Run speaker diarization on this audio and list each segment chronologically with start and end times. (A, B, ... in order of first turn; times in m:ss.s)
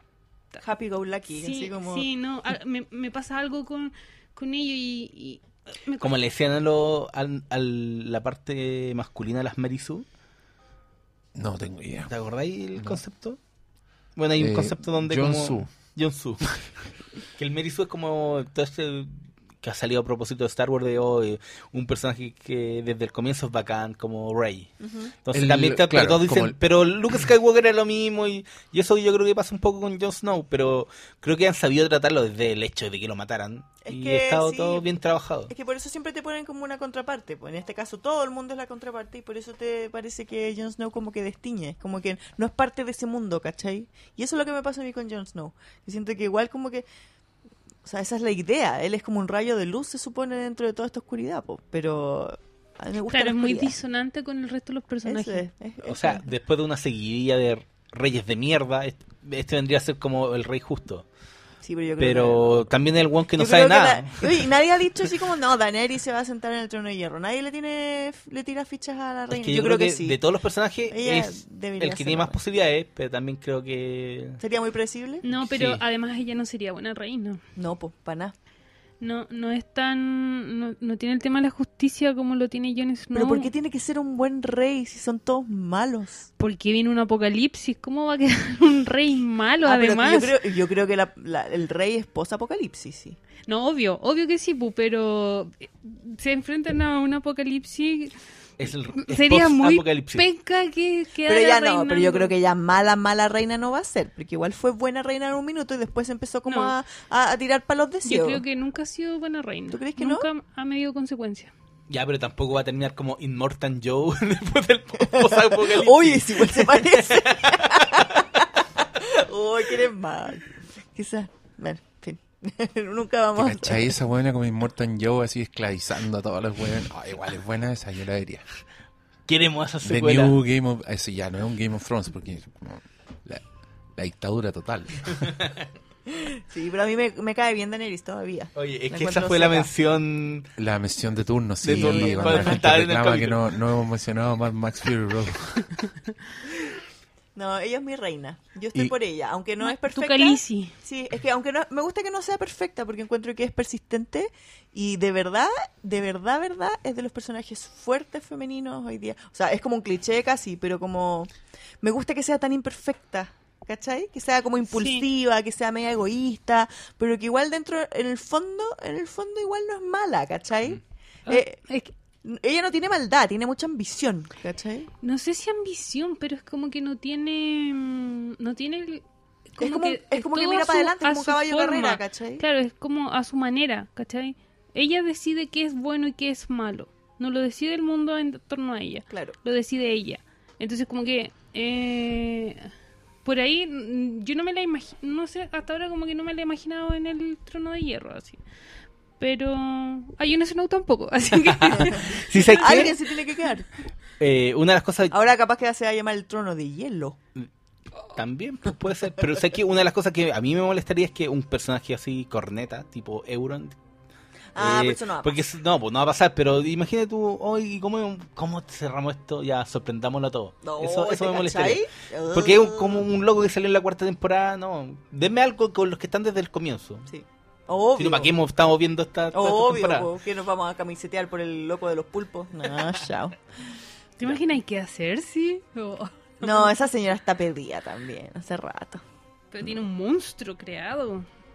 0:00.6-0:02.1 A
0:01.3-0:06.1 B
0:06.0-0:10.0 C
0:11.3-0:12.1 D
0:12.1-0:13.4 C
0:12.7-0:13.0 D
0:14.2-0:16.6 C
0:14.4-0:15.7 D
0:17.4-0:35.5 C
0:24.8-0:25.1 A
0:25.3-0:26.6 D
0:33.8-0:34.9 A
0:35.5-0:46.8 A
0:47.8-0:53.7 A
0:53.1-0:55.5 B
0:55.0-0:56.3 A
0:55.8-1:01.0 C
1:01.6-1:02.6 A
1:02.0-1:04.5 C
1:03.4-1:10.2 A
1:09.3-1:14.4 C
1:10.9-1:12.4 A
1:14.4-1:15.2 A
1:15.2-1:17.4 B
1:15.4-1:15.8 C
1:17.6-1:18.3 A
1:19.0-1:23.5 B
1:23.1-1:26.3 A
1:26.4-1:30.4 B
1:29.6-1:33.2 A
1:33.5-1:38.2 B
1:38.6-1:40.2 C
1:38.9-1:42.3 B
1:41.3-1:48.4 A
1:46.4-1:46.7 B
1:48.0-1:51.5 B
1:49.7-1:50.3 A
1:51.9-1:58.0 C
1:55.1-2:03.9 A
2:03.3-2:08.4 D
2:09.3-2:10.4 C
2:09.8-2:13.4 D
2:14.0-2:15.3 D
2:16.1-2:19.7 A
2:18.6-2:20.5 C
2:20.6-2:25.8 D
2:21.6-2:23.4 C
2:21.7-2:22.6 A
2:27.3-2:51.6 A
2:29.6-2:30.7 B
2:44.7-2:45.1 B
2:51.3-2:51.9 B
2:52.2-2:54.9 A
2:55.0-2:59.0 B
2:59.5-3:12.7 B
2:59.6-3:02.4 A
3:09.1-3:09.4 A
3:13.2-3:18.4 B
3:19.2-3:23.0 B
3:21.4-3:23.0 C
3:22.4-3:23.7 A
3:24.2-3:25.1 C
3:25.1-3:27.2 A
3:28.1-3:33.7 C
3:34.5-3:35.4 A
3:34.6-3:47.1 C
3:40.6-3:43.0 A
3:47.1-3:48.3 A
3:48.0-3:50.1 C
3:49.3-3:53.4 A
3:54.2-3:56.7 B
3:56.4-3:59.0 A
3:59.5-4:01.2 B